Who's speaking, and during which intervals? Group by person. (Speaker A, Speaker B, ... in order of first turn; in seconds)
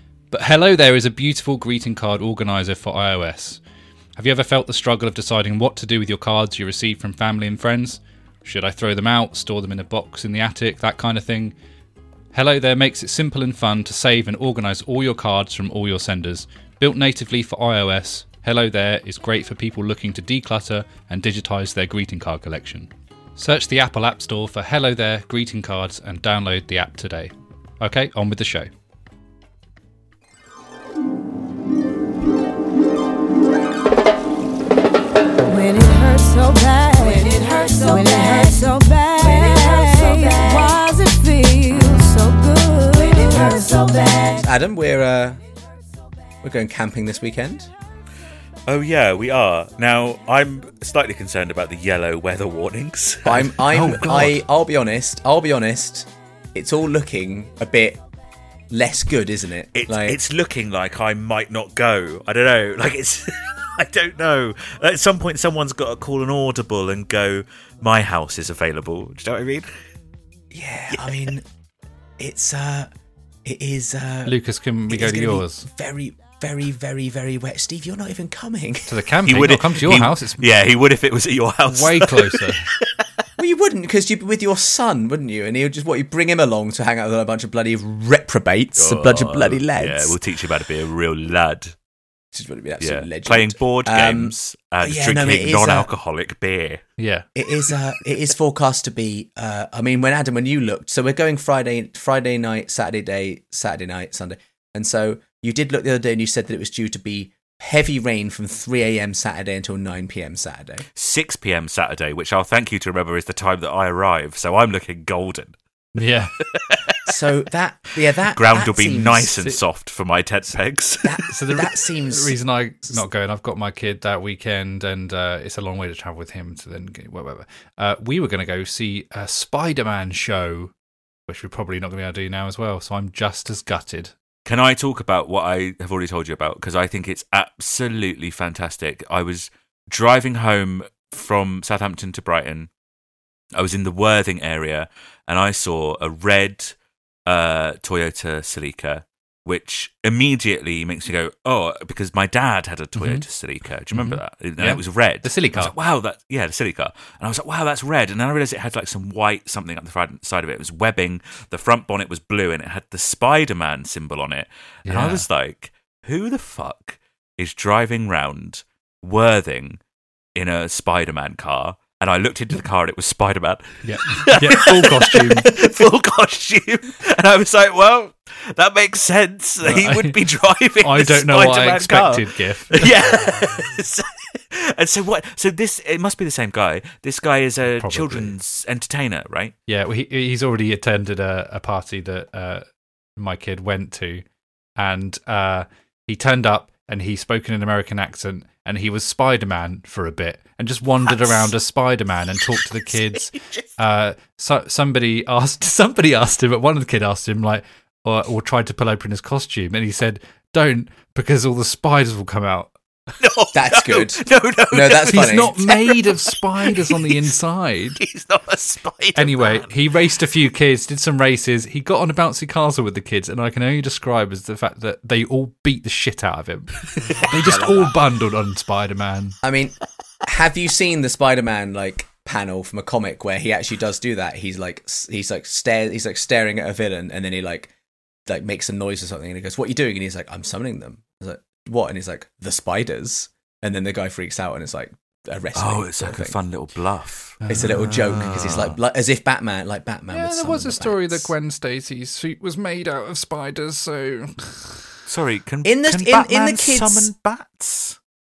Speaker A: 0.3-3.6, 4.2-11.6, 12.3-28.7, 53.7-54.4, 74.3-75.7, 78.9-80.4, 81.7-82.7, 97.0-97.3, 116.0-116.3, 121.3-130.7, 131.3-134.1, 153.0-153.2, 153.9-155.7, 164.9-165.2, 173.8-175.5, 179.6-180.2, 180.8-182.9, 187.8-188.3, 189.7-192.7, 193.2-194.2, 194.8-212.7, 215.1-218.0, 219.2-229.4, 247.4-248.2, 250.1-254.8
Speaker B: 35.4-44.5
Speaker C: 44.4-45.4, 46.4-47.7, 53.2-58.0, 58.7-60.2, 70.5-71.5, 72.2-72.9, 73.5-74.4, 74.9-78.9, 83.4-90.2, 92.3-95.9, 97.4-110.8, 117.1-119.5, 121.0-122.3, 213.5-215.6, 227.4-227.9, 229.4-237.7, 238.3-246.4, 247.5-251.3, 255.7-257.1
Speaker D: 48.7-53.6, 59.8-69.7, 71.0-71.3, 79.3-82.8, 88.8-91.8, 92.8-96.8, 111.0-115.6, 116.4-117.0, 118.3-121.3, 134.5-142.7, 143.6-146.8, 147.3-169.8, 170.4-189.5, 201.1-201.5, 203.1-203.7, 213.2-217.3, 218.0-219.7, 245.6-248.8, 255.1-258.0